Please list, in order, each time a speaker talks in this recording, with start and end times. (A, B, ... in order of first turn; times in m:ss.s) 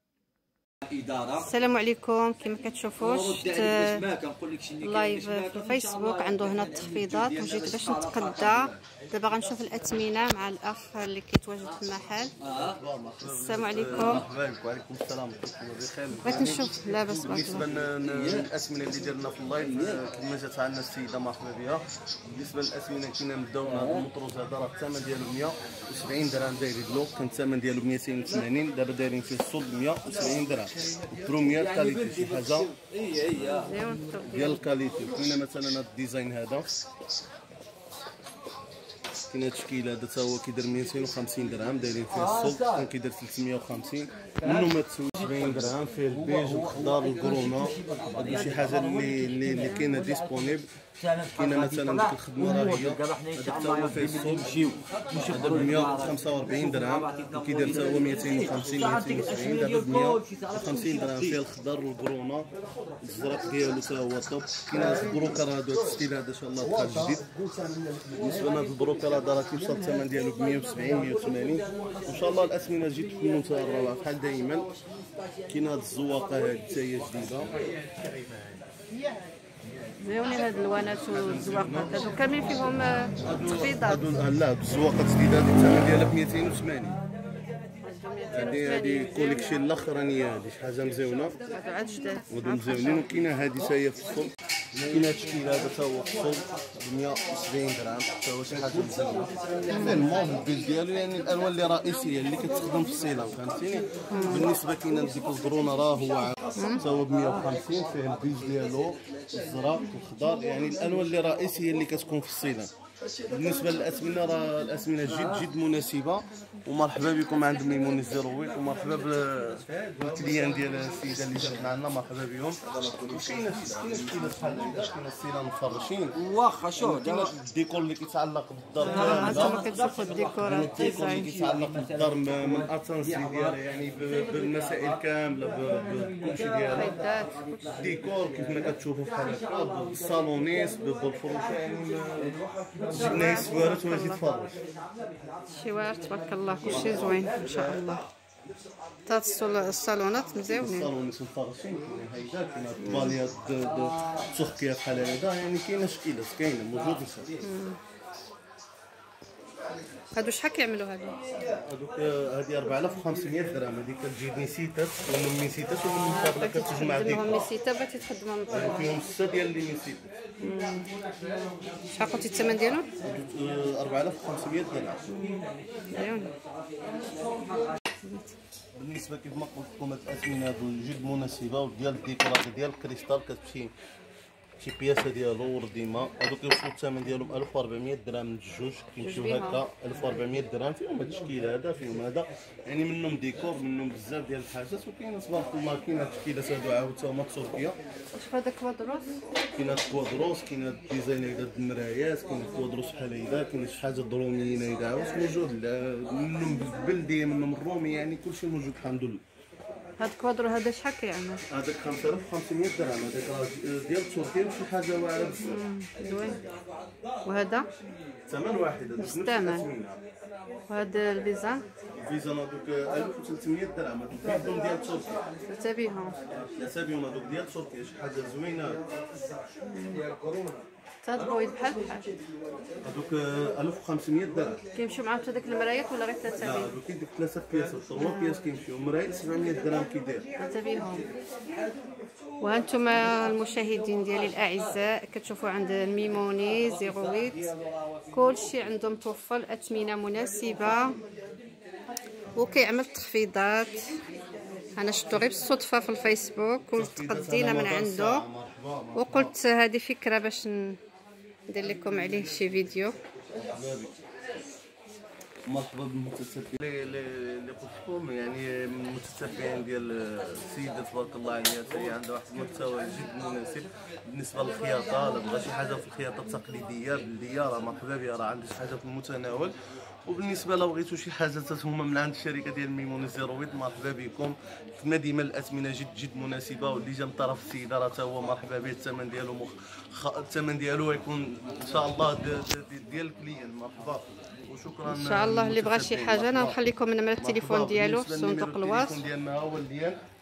0:00.9-0:01.5 A
0:01.4-0:04.1 B
0:03.0-0:08.8 A
0:04.8-0:12.3 B
0:12.4-0:12.8 A
0:12.8-0:32.7 C
0:13.2-0:14.2 B
0:14.0-0:14.2 A
0:16.2-0:17.7 B
0:18.0-0:18.5 A
0:19.6-0:20.0 A
0:23.6-0:24.1 A
0:31.4-0:34.0 A
0:33.4-0:34.6 B
0:34.3-0:36.7 C
0:39.3-0:50.7 C
0:42.1-0:42.9 A
0:44.5-1:01.4 A
0:51.3-1:02.5 C
1:03.0-1:07.2 C
1:04.7-1:05.4 A
1:06.6-1:08.9 A
1:08.2-1:14.7 C
1:09.5-1:13.7 A
1:15.0-1:15.6 A
1:15.5-1:17.5 C
1:20.0-1:24.2 B
1:21.0-1:22.1 C
1:23.2-1:27.0 C
1:27.8-1:29.6 B
1:28.3-1:31.4 C
1:31.5-1:33.1 B
1:32.3-1:34.3 C
1:34.8-1:52.7 C
1:38.7-1:40.0 A
1:39.7-1:40.1 B
1:44.1-1:44.5 B
1:46.6-1:46.8 B
1:53.3-2:06.2 C
2:06.2-2:07.3 A
2:06.8-2:09.6 C
2:08.8-2:11.3 B
2:09.0-2:12.7 A
2:10.4-2:17.0 C
2:15.7-2:16.1 B
2:16.7-2:17.8 B
2:17.8-2:22.4 C
2:22.7-2:23.4 A
2:22.9-2:24.6 C
2:22.9-2:24.2 B
2:25.5-2:28.0 B
2:26.6-2:27.5 C
2:29.1-2:30.9 B
2:30.5-2:37.3 C
2:32.8-2:33.2 B
2:37.4-2:37.8 B
2:40.2-2:41.2 B
2:41.6-2:47.5 C
2:46.1-2:48.9 B
2:48.5-2:50.1 C
2:50.4-2:50.9 B
2:51.9-2:52.9 B
2:53.0-2:55.0 C
2:55.1-2:56.3 B
2:58.0-2:58.3 B
2:58.8-3:03.7 C
3:04.6-3:17.8 C
3:09.0-3:09.6 B
3:18.1-3:19.2 B
3:19.6-3:29.2 C
3:30.0-3:31.4 B
3:31.5-3:35.4 C
3:35.4-3:36.4 B
3:37.2-3:37.7 B
3:38.3-3:40.0 C
3:39.0-3:39.7 B
3:40.7-3:41.6 B
3:42.0-3:45.2 C
3:45.5-3:46.2 B
3:46.3-3:48.8 C
3:49.7-3:50.0 B
3:51.0-3:52.1 B
3:52.8-3:54.6 C
3:54.7-3:56.7 B
3:56.4-4:00.3 C
3:58.0-3:58.4 B
4:00.4-4:01.1 B
4:02.4-4:07.5 B
4:08.1-4:11.0 B
4:12.4-4:13.8 B
4:14.8-4:18.2 B
4:16.7-4:19.3 C
4:19.0-4:20.8 B
4:21.5-4:23.0 B
4:23.4-4:23.9 C
4:25.5-4:39.5 C
4:40.1-4:56.6 C
4:54.8-4:59.0 B
4:57.2-5:00.0 C